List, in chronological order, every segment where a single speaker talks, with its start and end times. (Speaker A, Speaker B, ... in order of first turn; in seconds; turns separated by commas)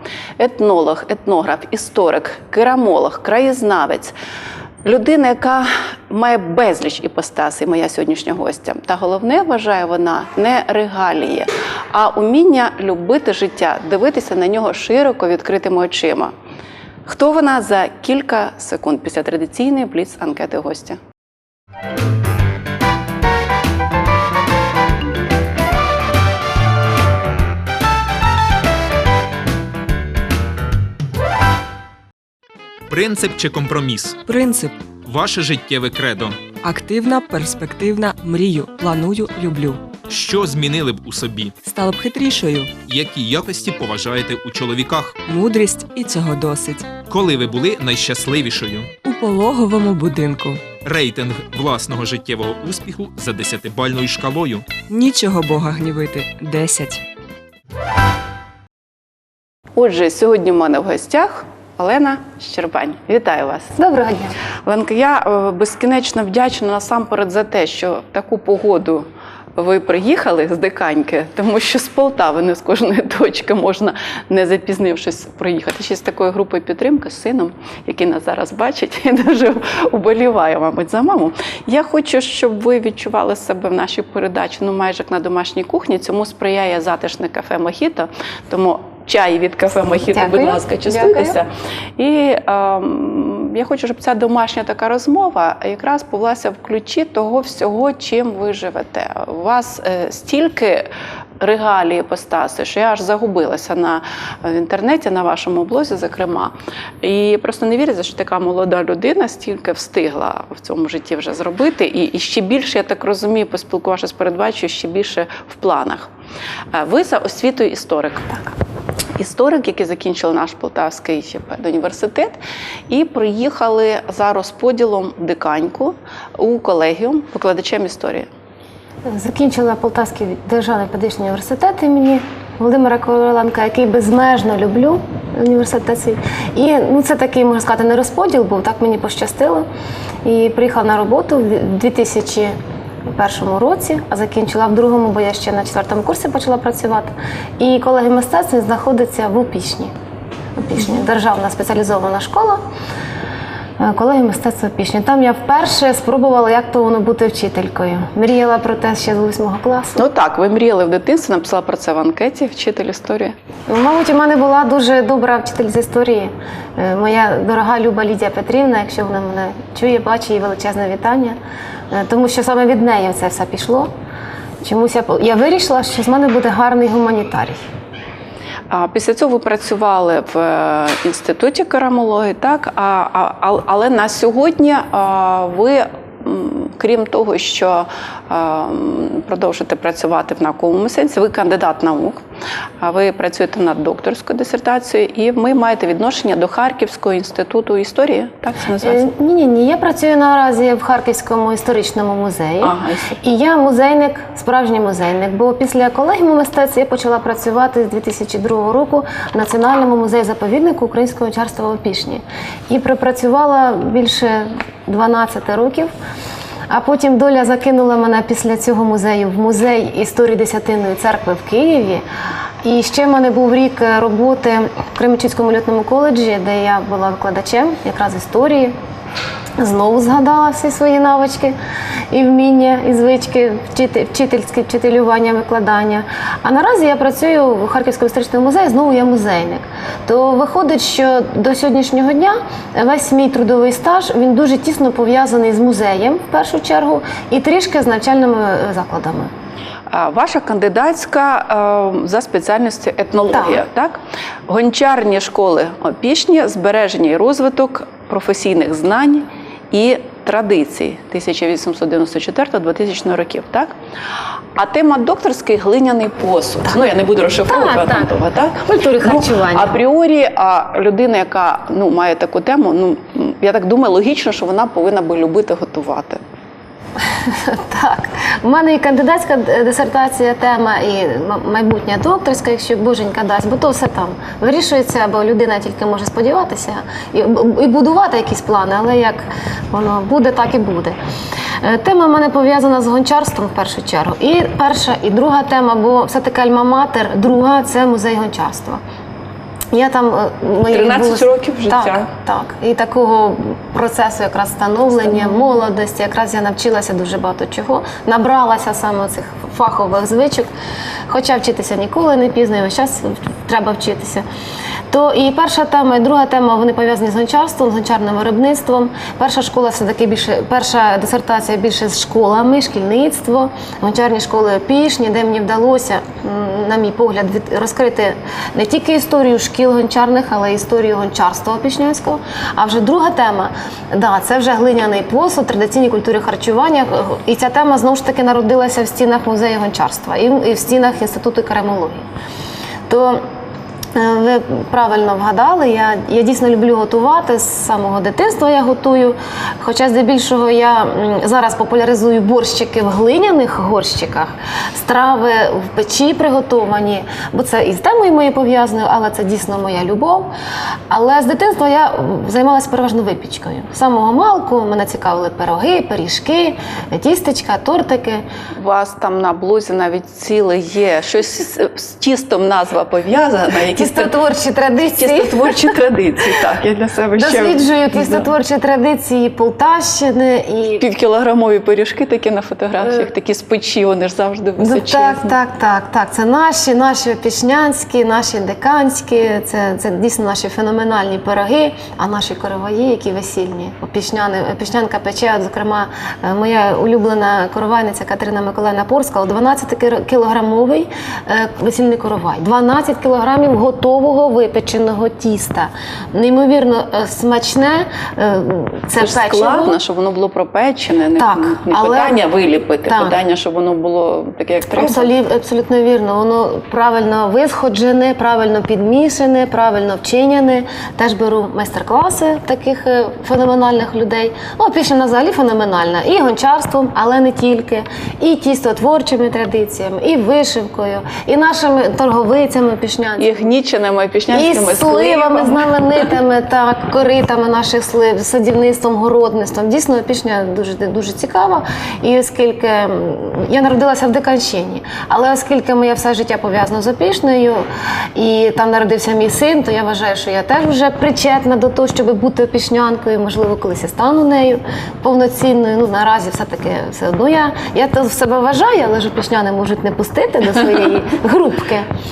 Speaker A: 0.4-4.1, Speaker A: 4.8-16.3, Speaker A: 17.1-21.0, Speaker B: 32.9-34.2, Speaker C: 34.3-34.8, Speaker B: 35.0-36.5, Speaker C: 36.6-39.8, Speaker B: 40.1-41.5, Speaker C: 41.6-42.7, Speaker B: 42.8-45.2, Speaker C: 45.2-47.0, Speaker B: 47.1-48.9, Speaker C: 49.0-50.6, Speaker B: 50.8-54.7, Speaker C: 54.8-57.0, Speaker A: 59.7-63.7, Speaker D: 63.8-64.3, Speaker A: 64.6-100.9, Speaker D: 90.1-91.4, Speaker A: 101.4-116.1, Speaker A: 116.7-118.6, Speaker A: 119.2-122.4, Speaker A: 122.9-128.3, Speaker D: 129.1-139.7, Speaker D: 140.2-142.5, Speaker D: 143.1-149.9, Speaker D: 150.6-152.6, Speaker D: 153.8-160.0, Speaker A: 160.0-163.3, Speaker D: 163.7-171.4, Speaker D: 171.9-173.9, Speaker D: 174.6-177.6, Speaker A: 178.7-192.2, Speaker A: 192.8-199.0, Speaker D: 198.8-215.9, Speaker A: 202.6-203.2, Speaker D: 216.7-222.0, Speaker D: 222.6-228.7, Speaker D: 229.6-231.6, Speaker D: 232.1-249.3, Speaker A: 249.9-263.7, Speaker D: 253.3-253.6, Speaker A: 264.6-276.2, Speaker D: 267.5-269.7, Speaker D: 277.1-290.9, Speaker D: 291.6-298.8, Speaker D: 299.7-310.5, Speaker A: 300.7-302.1, Speaker D: 311.1-314.2, Speaker D: 314.9-342.0, Speaker D: 342.9-343.2, Speaker D: 343.9-360.3, Speaker D: 360.9-368.2, Speaker A: 368.6-374.1, Speaker D: 373.7-375.7, Speaker A: 375.0-378.3, Speaker D: 377.2-380.8, Speaker A: 380.8-385.3, Speaker D: 384.6-409.8, Speaker A: 409.0-415.1, Speaker D: 411.2-412.2, Speaker D: 412.9-413.2, Speaker D: 414.7-433.5, Speaker A: 433.2-436.1, Speaker D: 434.3-461.9